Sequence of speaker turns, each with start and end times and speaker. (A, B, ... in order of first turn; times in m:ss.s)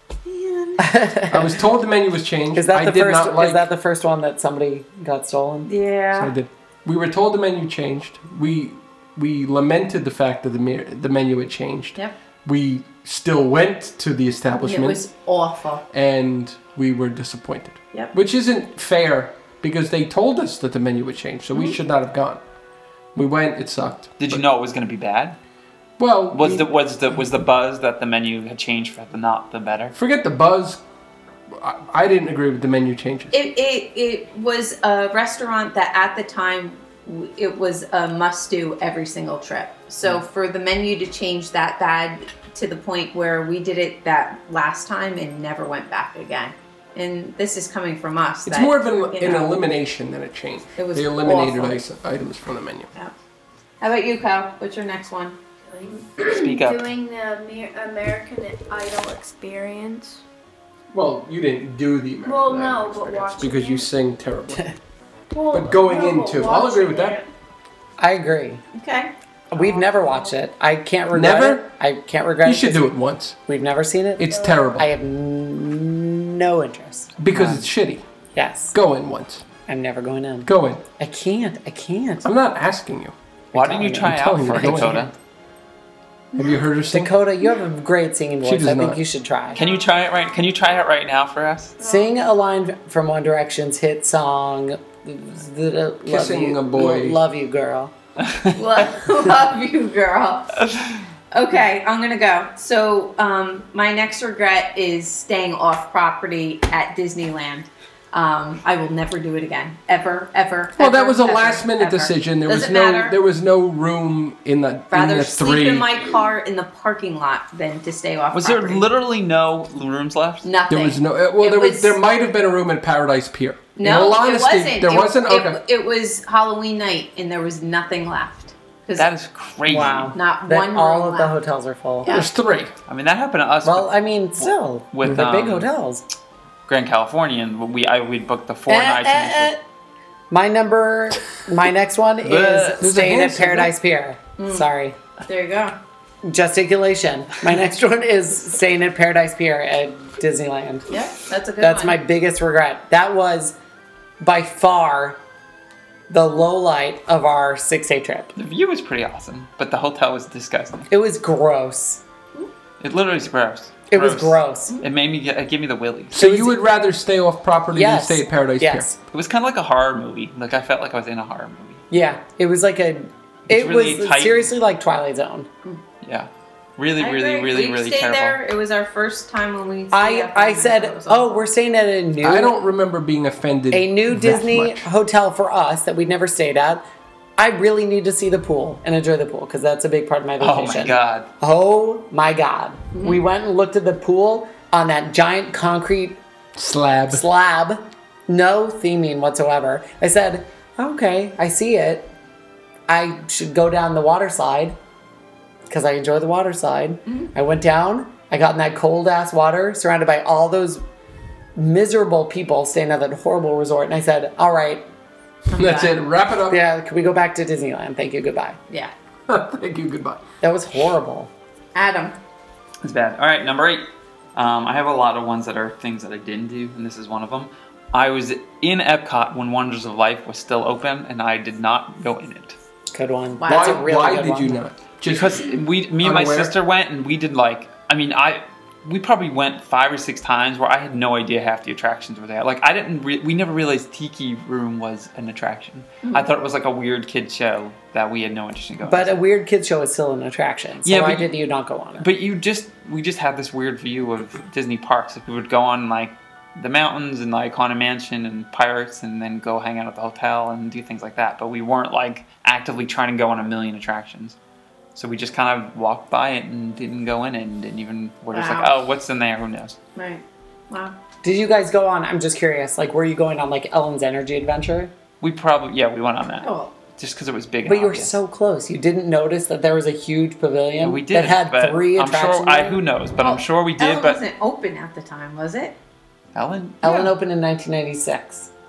0:00.2-0:01.0 A
0:00.8-0:01.4 B
0:01.3-0:03.7 C
0:02.6-0:05.7 B
0:05.6-0:06.3 A
0:06.1-0:15.0 C
0:14.6-0:15.8 A
0:15.9-0:22.4 C
0:23.1-0:24.4 C
0:24.2-0:25.4 D
0:26.0-0:26.7 C
0:26.3-0:29.9 D
0:29.9-0:30.8 C
0:31.5-0:33.4 C
0:33.3-0:49.6 A
0:48.4-0:52.9 C
0:50.8-0:51.8 A
0:53.8-0:55.4 A
0:55.7-1:00.2 E
0:56.2-0:56.9 D
1:00.9-1:04.7 C
1:02.2-1:03.9 E
1:05.3-1:07.3 E
1:05.5-1:07.2 C
1:08.0-1:08.6 B
1:08.7-1:09.7 A
1:09.5-1:12.9 B
1:11.1-1:11.7 C
1:12.4-1:13.4 C
1:13.4-1:17.1 B
1:14.2-1:14.9 C
1:17.2-1:18.0 C
1:17.3-1:17.6 D
1:18.4-1:18.8 B
1:18.7-1:19.4 C
1:19.7-1:22.3 B
1:20.4-1:20.8 C
1:22.2-1:23.1 C
1:23.5-1:25.1 B
1:23.5-1:25.1 D
1:23.9-1:25.1 C
1:26.4-1:27.1 C
1:26.9-1:29.6 B
1:28.4-1:29.0 C
1:29.5-1:31.8 D
1:31.8-1:32.1 E
1:31.8-1:37.9 B
1:36.1-1:37.2 C
1:38.2-1:38.8 D
1:38.6-1:40.6 A
1:40.6-1:41.0 D
1:41.3-1:53.2 A
1:50.8-1:55.9 C
1:54.9-1:58.8 A
1:58.3-2:00.5 D
2:00.4-2:02.0 A
2:00.7-2:05.6 C
2:03.8-2:09.1 A
2:09.0-2:10.1 D
2:09.7-2:12.1 B
2:10.1-2:11.3 A
2:12.0-2:12.3 A
2:12.1-2:12.7 C
2:12.9-2:15.7 D
2:13.6-2:16.0 B
2:16.7-2:19.5 D
2:18.7-2:19.6 B
2:20.3-2:25.0 B
2:22.3-2:23.7 C
2:24.4-2:24.6 A
2:25.3-2:25.8 A
2:26.2-2:30.9 B
2:30.9-2:32.0 A
2:31.6-2:33.6 B
2:34.2-2:35.2 B
2:36.1-2:38.3 B
2:38.4-2:40.9 D
2:40.9-2:42.0 B
2:42.8-2:46.2 D
2:43.9-2:44.8 B
2:46.1-2:48.9 C
2:46.1-2:46.6 B
2:47.7-2:49.0 B
2:49.1-2:51.8 D
2:51.9-2:55.5 B
2:53.5-2:54.5 D
2:56.0-2:58.4 D
2:57.0-3:01.4 A
2:59.9-3:02.6 B
3:02.2-3:04.9 C
3:03.7-3:06.8 B
3:07.4-3:16.2 B
3:10.4-3:11.3 D
3:12.9-3:13.2 A
3:16.6-3:17.2 C
3:17.1-3:22.1 B
3:22.9-3:24.8 B
3:25.7-3:30.8 B
3:31.6-3:34.9 B
3:35.5-3:36.0 A
3:35.5-3:36.6 C
3:36.5-3:38.6 B
3:39.3-3:40.2 C
3:40.4-3:41.3 B
3:41.8-3:42.2 A
3:42.8-3:52.6 D
3:52.9-3:54.6 B
3:53.4-3:53.8 A
3:53.5-3:55.5 C
3:55.1-4:09.2 D
3:56.0-3:56.6 C
4:08.8-4:12.1 B
4:10.8-4:11.3 D
4:12.0-4:24.4 D
4:24.9-4:29.8 D
4:28.3-4:28.7 A
4:29.9-4:30.9 A
4:31.2-4:34.9 B
4:35.2-4:38.2 D
4:36.4-4:36.7 A
4:37.6-4:42.8 B
4:40.8-4:44.2 D
4:43.2-4:45.8 A
4:46.4-4:47.1 D
4:46.8-4:48.5 B